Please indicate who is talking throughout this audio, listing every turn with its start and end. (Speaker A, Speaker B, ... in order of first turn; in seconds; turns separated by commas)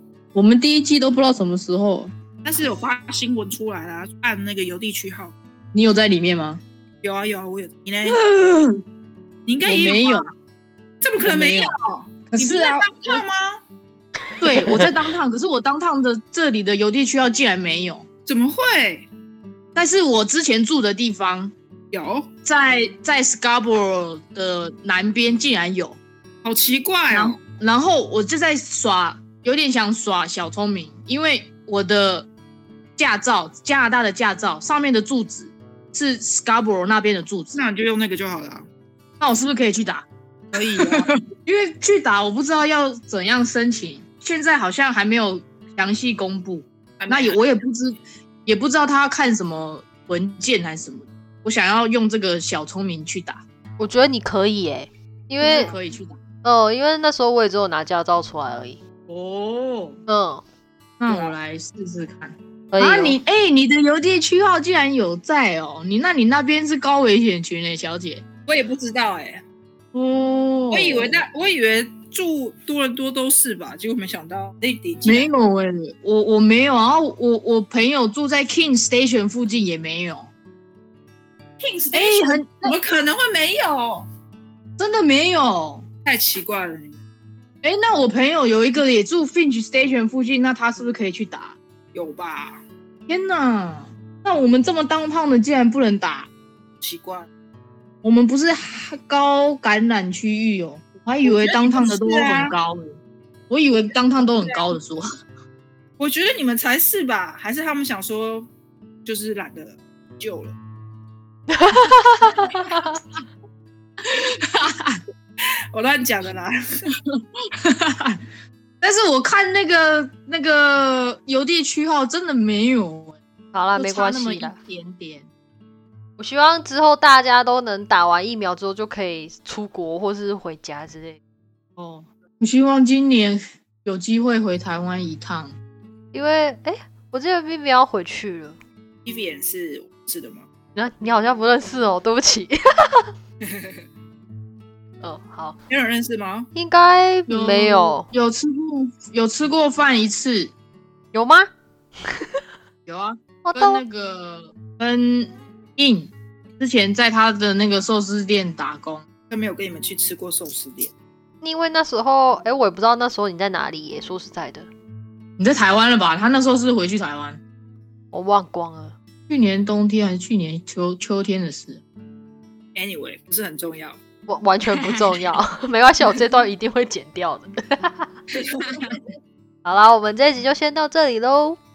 Speaker A: 0.3-2.1, Speaker B: 2.4-5.3, Speaker A: 5.7-6.6, Speaker B: 7.0-8.2, Speaker A: 8.0-8.8, Speaker B: 9.5-10.3, Speaker A: 9.6-10.3, Speaker B: 11.0-13.6, Speaker A: 11.2-11.7, Speaker A: 12.3-13.2, Speaker A: 14.4-18.1, Speaker C: 14.5-14.9, Speaker B: 18.2-19.1, Speaker A: 19.7-21.5, Speaker B: 21.9-22.3, Speaker A: 22.4-26.0, Speaker B: 26.4-27.4, Speaker A: 27.1-32.3, Speaker A: 33.0-37.6, Speaker B: 37.5-38.6, Speaker A: 39.2-40.0, Speaker B: 40.5-41.1, Speaker A: 40.6-53.4, Speaker B: 47.0-47.4, Speaker C: 53.8-55.7, Speaker A: 55.4-56.1, Speaker B: 55.4-55.8, Speaker C: 56.4-58.8, Speaker A: 59.1-60.0, Speaker C: 60.1-60.4, Speaker A: 61.0-68.2, Speaker B: 61.1-61.3, Speaker C: 62.7-63.2, Speaker B: 68.5-69.4, Speaker A: 69.9-71.2, Speaker B: 70.7-75.3, Speaker A: 75.0-80.3, Speaker B: 81.6-84.1, Speaker A: 81.9-82.7, Speaker A: 84.8-85.8, Speaker B: 86.0-87.0, Speaker A: 87.6-91.5, Speaker B: 91.9-92.6, Speaker A: 93.1-96.3, Speaker B: 96.8-97.3, Speaker A: 98.0-103.0, Speaker B: 101.2-102.5, Speaker A: 103.5-105.0, Speaker B: 106.0-108.5, Speaker B: 109.0-110.5, Speaker C: 111.5-113.0, Speaker A: 112.5-112.9, Speaker A: 114.5-115.0, Speaker B: 115.7-116.9, Speaker A: 117.6-118.2, Speaker A: 118.8-123.2, Speaker C: 123.5-124.5, Speaker A: 123.7-125.3, Speaker C: 126.2-131.2, Speaker A: 131.8-135.5, Speaker C: 136.1-138.6, Speaker B: 139.0-140.4, Speaker C: 140.7-143.1, Speaker B: 143.4-143.8, Speaker C: 145.0-145.6, Speaker B: 145.7-146.5, Speaker C: 146.5-148.1, Speaker A: 147.3-150.5, Speaker C: 151.1-151.5, Speaker A: 152.8-159.0, Speaker C: 153.4-153.8, Speaker B: 159.3-160.9, Speaker C: 161.4-164.7, Speaker A: 165.4-167.4, Speaker C: 168.1-168.9, Speaker A: 169.3-171.8, Speaker B: 172.7-174.0, Speaker C: 174.3-178.1, Speaker A: 174.8-175.2, Speaker B: 178.3-179.0, Speaker C: 179.6-181.6